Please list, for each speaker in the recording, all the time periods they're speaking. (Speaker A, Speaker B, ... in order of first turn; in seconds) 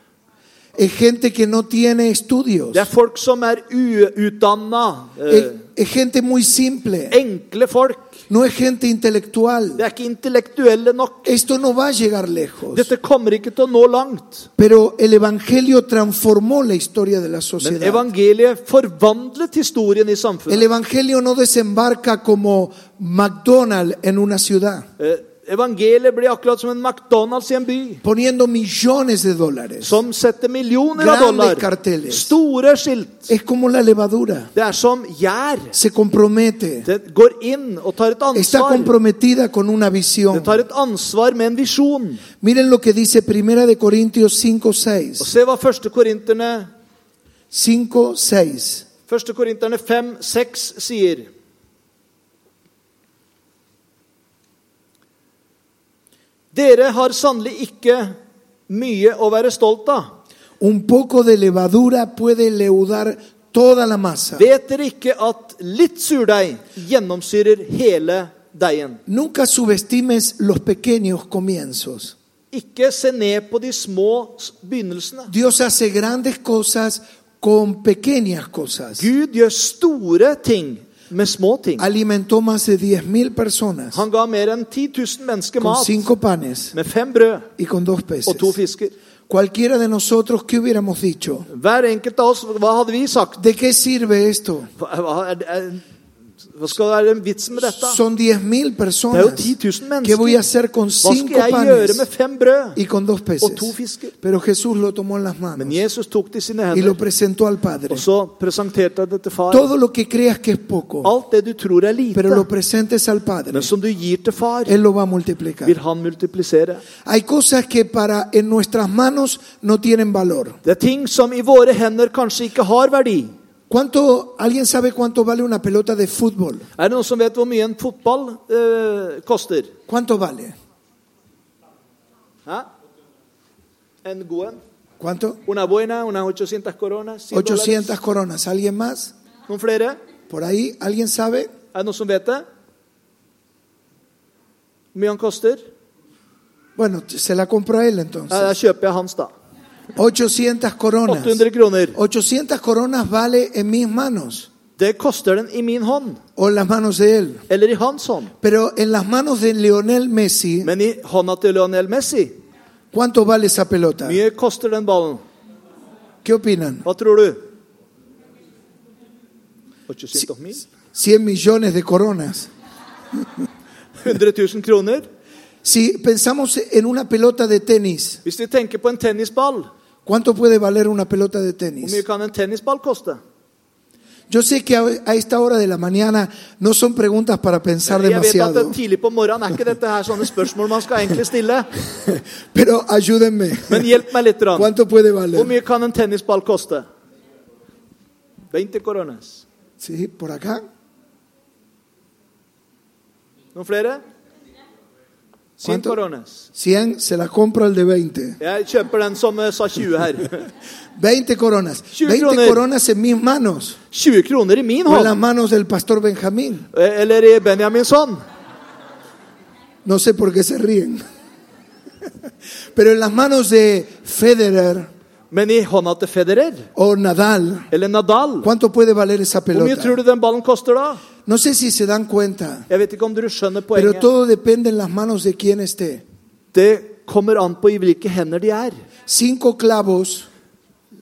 Speaker A: 0.8-2.9, 5.3-7.2, 8.3-9.8, 11.2-12.9, 14.6-18.1, 20.5-24.9, 28.0-30.0, 31.0-32.3, 33.3-34.5, 35.7-36.9, 38.3-40.6, 42.4-45.3, 47.5-48.9, 60.6-64.5, 69.1-72.2, 75.3-79.1, 81.8-84.0, 85.6-86.7, 87.6-88.5, 89.3-91.5, 93.4-94.7, 97.8-99.5, 100.0-102.1, 102.8-105.8, 106.7-108.0, 109.5-111.1, 112.1-113.7, 114.7-115.8, 117.0-120.6, 123.7-126.7, 129.9-130.5, 135.0-135.4, 137.3-139.1, 140.3-141.5, 146.8-148.5, 150.0-151.4, 151.9-154.5, 156.4-157.4, 158.4-160.7, 162.9-164.2, 166.2-166.9, 170.9-172.5, 175.6-178.2, 180.1-182.0, 184.3-188.8, 192.0-194.0, 194.6-195.6, 199.8-200.6, 205.6-206.0, 206.6-208.4, 211.0-213.8, 214.9-216.7, 219.8-221.0, 222.8-224.9, 226.8-227.7, 228.4-230.0, 231.3-232.7, 233.7-236.0, 239.1-240.3
Speaker B: 2.7-5.6, 7.1-8.1, 9.8-11.3, 12.7-14.5, 17.6-20.7, 25.0-28.0, 29.8-33.3, 34.5-35.8, 36.9-38.9, 40.3-42.2, 45.2-46.7, 49.1-51.3, 56.5-58.2, 58.7-60.1, 64.4-69.0, 72.5-75.3, 79.0-81.8, 83.9-86.1, 86.7-87.5, 88.3-88.9, 91.5-93.4, 94.8-95.8, 96.6-98.0, 99.1-100.4, 101.0-102.8, 103.4-104.1, 105.6-107.0, 107.9-109.7, 111.0-112.5, 113.5-114.8, 115.6-116.8, 120.6-123.3, 126.8-129.7, 134.0-134.6, 135.5-137.9, 139.5-140.0, 141.7-142.4, 144.9-145.7, 148.3-149.3, 151.1-152.0, 154.8-156.2, 157.5-158.3, 160.6-162.4, 164.1-165.2, 166.8-167.4, 169.9-170.7, 174.0-175.1, 178.2-179.7, 181.8-183.2, 187.9-191.7, 193.7-194.7, 195.3-196.9, 198.5-199.4, 203.6-204.0, 205.6-206.4, 208.4-210.5, 211.9-212.6, 213.9-215.2, 216.7-218.2, 225.3-226.7, 227.7-228.5, 229.5-231.0, 232.7-234.1, 236.5-238.8